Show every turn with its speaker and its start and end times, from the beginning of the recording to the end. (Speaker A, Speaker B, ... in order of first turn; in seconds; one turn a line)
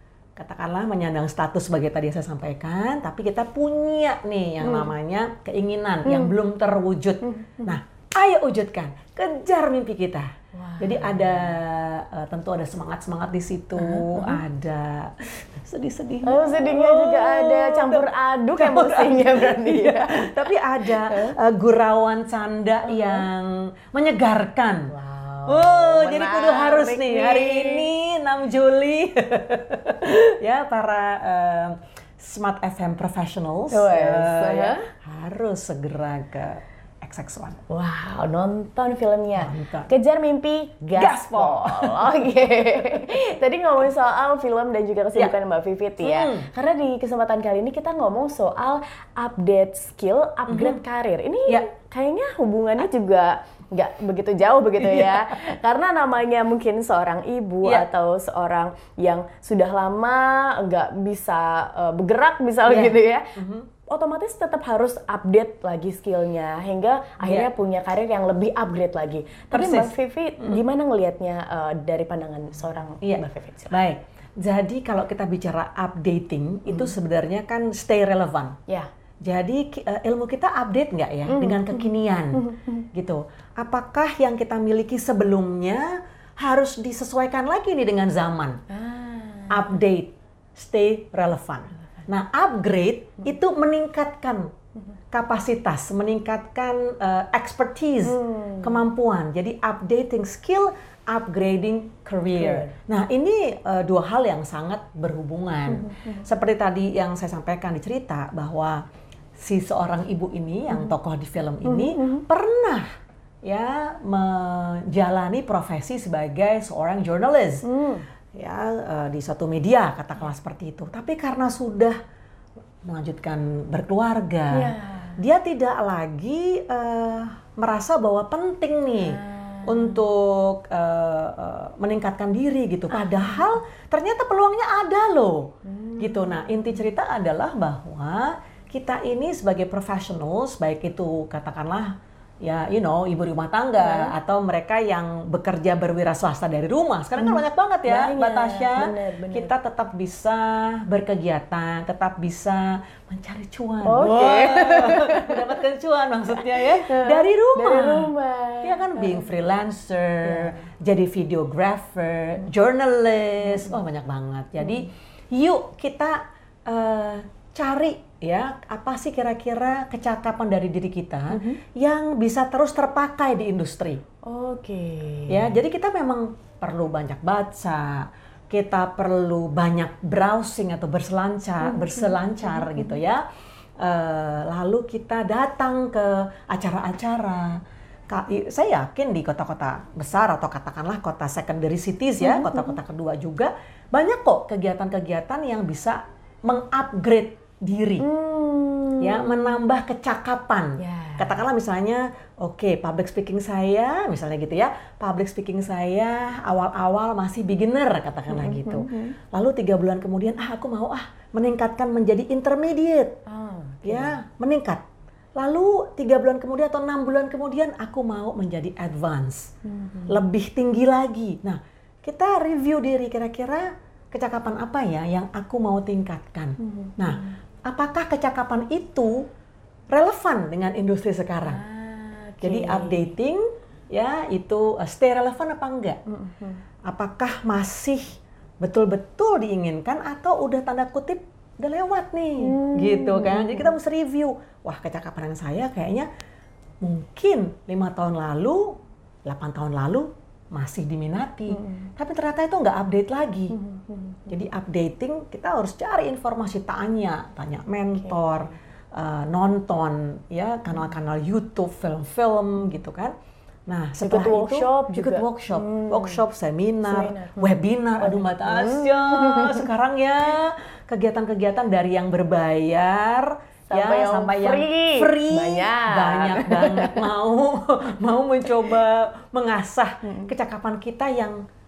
Speaker A: 0.3-24.9
Speaker B: 4.6-4.9
Speaker B: 6.0-6.3
Speaker B: 7.2-7.8
Speaker B: 10.5-11.5
Speaker B: 13.8-14.4
Speaker B: 16.2-21.4
Speaker B: 22.8-23.3
Speaker B: 24.9-27.9
Speaker A: 25.5-37.6
Speaker B: 33.7-34.9
Speaker B: 37.7-63.4
Speaker A: 39.4-39.9
Speaker A: 40.9-42.3
Speaker A: 46.0-46.5
Speaker A: 50.5-50.8
Speaker A: 54.8-55.3
Speaker A: 62.6-63.7
Speaker B: 63.9-73.8
Speaker A: 67.2-67.5
Speaker A: 69.5-70.6
Speaker A: 73.0-78.6
Speaker B: 76.7-76.9
Speaker A: 79.2-88.6
Speaker B: 81.3-82.8
Speaker B: 88.7-89.8
Speaker A: 89.5-94.5
Speaker A: 95.1-108.8
Speaker B: 98.0-98.8
Speaker B: 102.3-102.7
Speaker B: 105.7-106.2
Speaker A: 109.4-112.9
Speaker B: 111.6-112.2
Speaker A: 113.4-117.7
Speaker B: 117.6-118.0
Speaker A: 118.3-122.0
Speaker A: 122.8-158.1
Speaker B: 124.5-125.2
Speaker B: 129.0-130.1
Speaker B: 133.2-133.5
Speaker B: 135.6-136.8
Speaker B: 143.8-144.1
Speaker B: 147.2-149.5
Speaker B: 153.8-155.5
Speaker B: 156.5-159.3
Speaker A: 158.6-174.0
Speaker B: 160.2-160.6
Speaker B: 163.5-163.8
Speaker B: 171.3-171.6
Speaker B: 174.2-175.5
Speaker A: 175.3-183.2
Speaker B: 181.6-183.0
Speaker A: 183.8-187.6
Speaker A: 188.1-198.1
Speaker B: 192.2-192.7
Speaker B: 198.0-199.6
Speaker A: 199.0-213.2
Speaker B: 200.8-201.4
Speaker B: 208.3-209.1
Speaker B: 213.2-214.2
Speaker A: 213.8-214.8
Speaker A: 215.3-219.6
Speaker B: 219.6-220.2
Speaker A: 220.1-229.3
Speaker B: 226.6-227.3
Speaker A: 229.9-231.6
Speaker B: 231.4-233.1
Speaker A: 232.4-236.0
Speaker B: 236.1-236.6
Speaker A: 236.8-246.1
Speaker B: 242.4-243.8
Speaker A: 246.8-253.6
Speaker B: 251.5-251.8
Speaker B: 253.5-254.3
Speaker A: 254.3-263.1
Speaker B: 257.9-258.4
Speaker A: 263.7-281.4
Speaker B: 264.0-266.2
Speaker B: 266.8-269.7
Speaker B: 273.7-277.1